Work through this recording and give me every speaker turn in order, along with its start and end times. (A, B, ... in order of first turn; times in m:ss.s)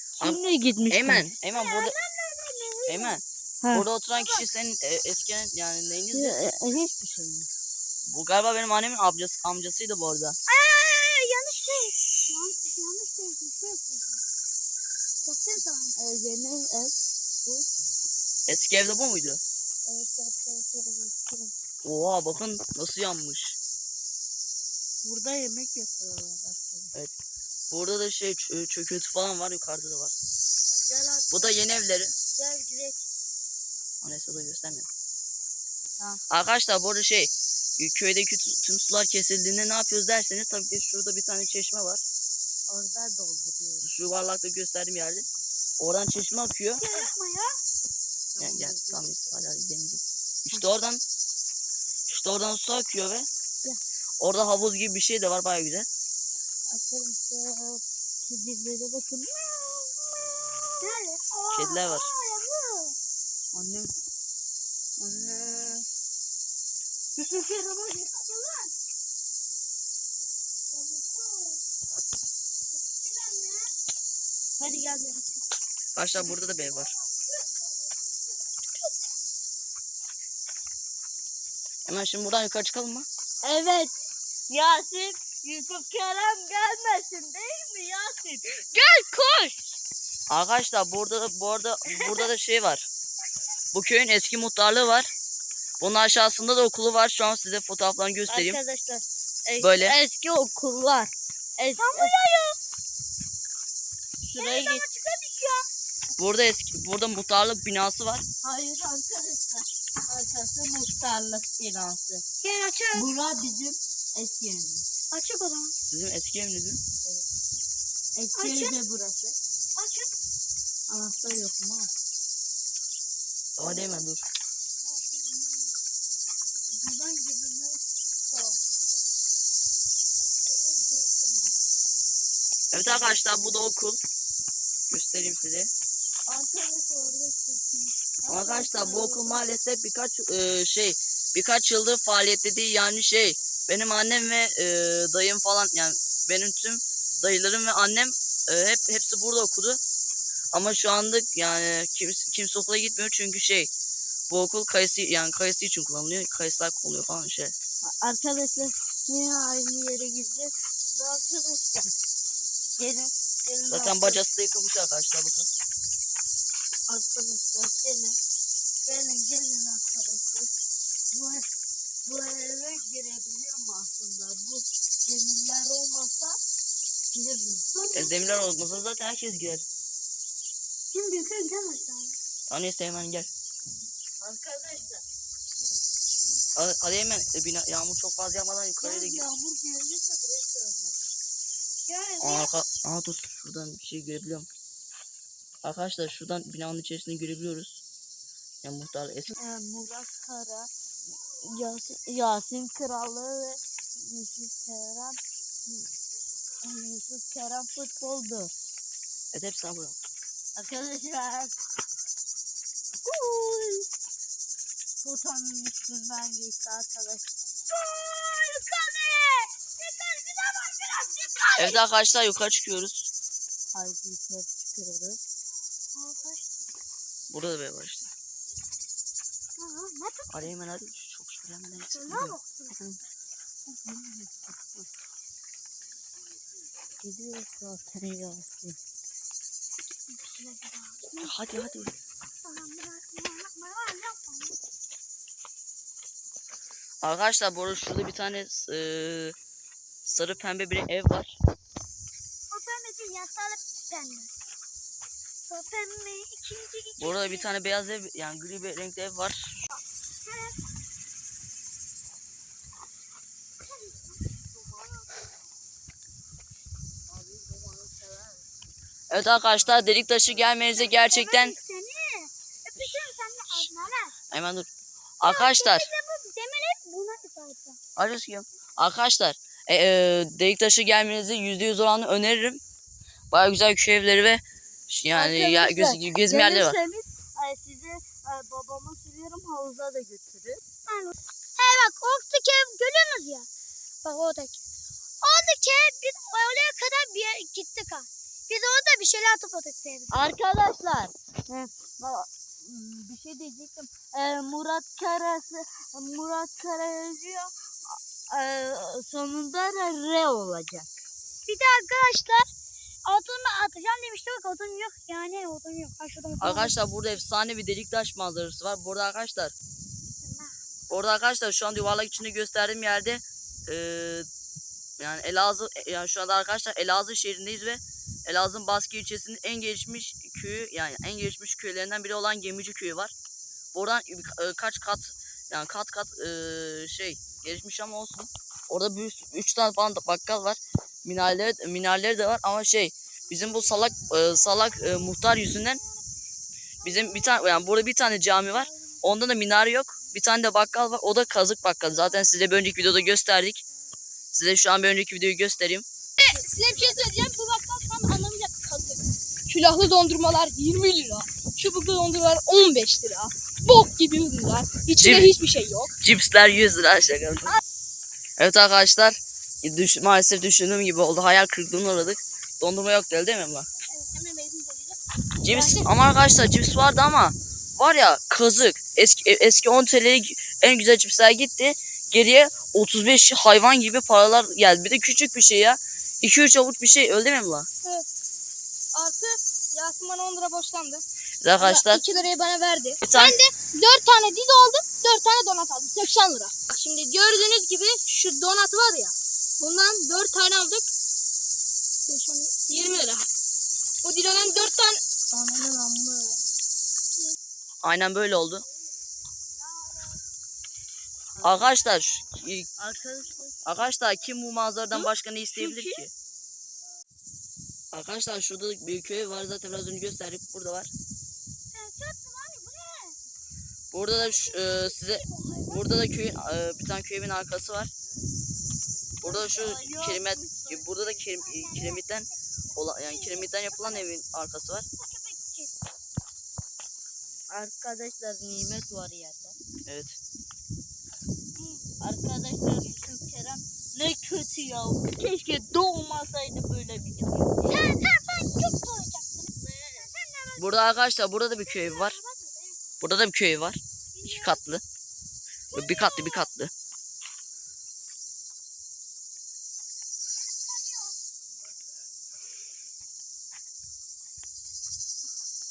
0:00.2-0:01.3 A
0:00.2-0:01.9 B
0:01.5-0:03.2 C
0:02.9-0:06.4 B
0:04.1-0:04.4 C
0:06.1-0:07.5 A
0:08.1-0:10.4 B
0:10.5-0:14.2 C
0:15.2-0:15.9 C
0:16.0-0:17.6 A
0:18.5-0:19.4 B
0:19.9-0:21.5 A
0:21.8-0:23.6 B
0:25.0-0:26.9 A
0:27.7-0:30.1 B
0:30.7-0:31.6 A
0:31.3-0:32.1 B
0:32.4-0:33.0 A
0:34.0-0:34.9 B
0:36.3-0:42.0 B
0:42.7-0:43.8 A
0:43.8-0:45.2 B
0:45.8-0:46.8 B
0:46.8-0:47.6 C
0:48.4-0:49.0 A
0:48.4-0:51.0 B
0:52.1-0:53.3 B
0:54.2-0:55.9 B
0:56.7-0:59.9 A
1:00.8-1:02.9 C
1:01.5-1:02.1 B
1:03.5-1:03.9 A
1:05.0-1:05.8 A
1:07.2-1:08.2 A
1:08.1-1:08.6 C
1:10.7-1:11.6 C
1:12.9-1:13.7 C
1:14.6-1:15.2 A
1:16.0-1:16.9 B
1:21.8-1:23.1 B
1:23.4-1:23.9 A
1:24.5-1:29.6 A
1:30.3-1:32.9 B
1:33.7-1:35.1 B
1:35.8-1:38.6 B
1:38.3-1:42.1 A
1:39.6-1:40.0 B
1:41.8-1:42.6 C
1:44.2-1:44.8 A
1:44.4-1:45.6 C
1:46.2-1:48.2 B
1:48.4-1:52.2 A
1:52.4-1:53.0 C
1:52.9-1:54.8 A
1:55.1-1:55.7 C
1:55.8-1:56.8 B
1:58.2-1:59.4 A
1:58.4-1:58.8 C
1:59.8-2:00.1 C
2:00.9-2:01.9 A
2:03.6-2:04.2 B
2:06.7-2:07.8 A
2:08.3-2:08.7 A
2:10.4-2:11.5 A
2:12.7-2:14.0 B
2:14.9-2:15.7 B
2:16.3-2:19.3 A
2:18.3-2:29.8 B
2:30.5-2:33.7 B
2:34.3-2:37.5 B
2:37.8-2:41.9 A
2:42.8-2:44.2 A
2:43.7-2:45.5 B
2:46.9-2:48.2 A
2:48.8-2:50.5 A
2:51.1-2:51.5 A
2:52.0-2:56.4 A
2:57.1-2:57.7 A
2:57.7-2:58.2 C
2:57.9-2:59.6 B
3:00.9-3:02.2 C
3:02.5-3:03.3 B
3:04.2-3:05.0 A
3:06.6-3:09.2 B
3:08.8-3:10.9 A
3:11.9-3:12.5 C
3:12.2-3:14.5 B
3:15.6-3:17.8 B
3:18.6-3:19.4 B
3:19.4-3:20.7 A
3:21.4-3:25.9 A
3:26.6-3:28.5 A
3:29.3-3:30.0 B
3:30.6-3:31.5 A
3:33.0-3:33.8 A
3:35.0-3:37.3 A
3:37.7-3:41.8 C
3:41.6-3:43.1 B
3:43.7-3:45.2 A
3:45.9-3:46.6 C
3:47.3-3:48.1 B
3:49.6-3:50.5 C
3:50.3-3:52.4 B
3:51.9-3:52.8 C
3:53.7-3:54.9 A
3:57.0-3:58.8 A
4:00.1-4:01.7 C
4:01.2-4:01.9 B
4:02.4-4:04.6 C
4:07.0-4:09.4 B
4:10.0-4:11.4 B
4:12.5-4:14.3 C
4:15.5-4:17.4 C
4:17.0-4:19.6 B
4:20.2-4:20.6 C
4:23.7-4:24.1 C
4:27.1-4:28.4 A
4:29.1-4:31.5 B
4:30.7-4:34.2 C
4:34.3-4:34.7 B
4:35.2-4:35.9 B
4:35.2-4:37.8 C
4:38.0-4:42.6 B
4:43.3-4:46.8 B
4:45.1-4:50.6 A
4:50.9-4:53.5 C
4:54.0-4:54.6 C
4:55.2-5:00.2 C
5:00.1-5:10.9 A
5:11.4-5:12.5 C
5:13.0-5:16.8 C
5:16.4-5:19.5 B
5:20.2-5:20.5 C
5:20.9-5:24.3 B
5:25.0-5:33.1 B
5:33.7-5:45.8 B
5:43.7-5:45.8 C
5:46.8-5:47.6 C
5:46.8-5:53.6 B
5:54.3-5:55.8 B
5:56.2-6:05.9 D
5:56.7-5:57.0 C
6:05.0-6:05.3 B
6:06.0-6:07.6 B
6:08.4-6:13.7 B
6:14.0-6:15.0 D
6:15.4-6:27.7 B
6:15.5-6:15.9 D
6:28.9-6:31.0 D
6:31.4-6:32.0 B
6:31.6-6:40.9 D
6:33.0-6:33.4 B
6:42.1-6:43.2 D
6:44.0-6:46.4 D
6:47.8-6:48.6 B
6:51.4-6:52.7 B
6:52.8-6:53.6 A
6:53.6-6:56.1 B
6:54.9-6:56.0 A
6:57.9-7:00.9 B
7:01.7-7:03.2 C
7:03.9-7:07.9 B
7:04.2-7:06.1 C
7:09.2-7:14.8 B
7:09.2-7:11.2 A
7:11.4-7:14.0 C
7:15.0-7:15.8 C
7:17.5-7:19.6 A
7:19.8-7:20.2 B
7:21.6-7:21.9 C
7:22.0-7:27.6 A
7:27.6-7:30.9 C
7:29.6-7:30.0 A
7:30.6-7:32.2 B
7:31.5-7:32.8 C
7:33.0-7:34.8 B
7:34.2-7:34.6 C
7:35.7-7:36.5 C
7:35.7-7:36.7 B
7:40.4-7:41.1 C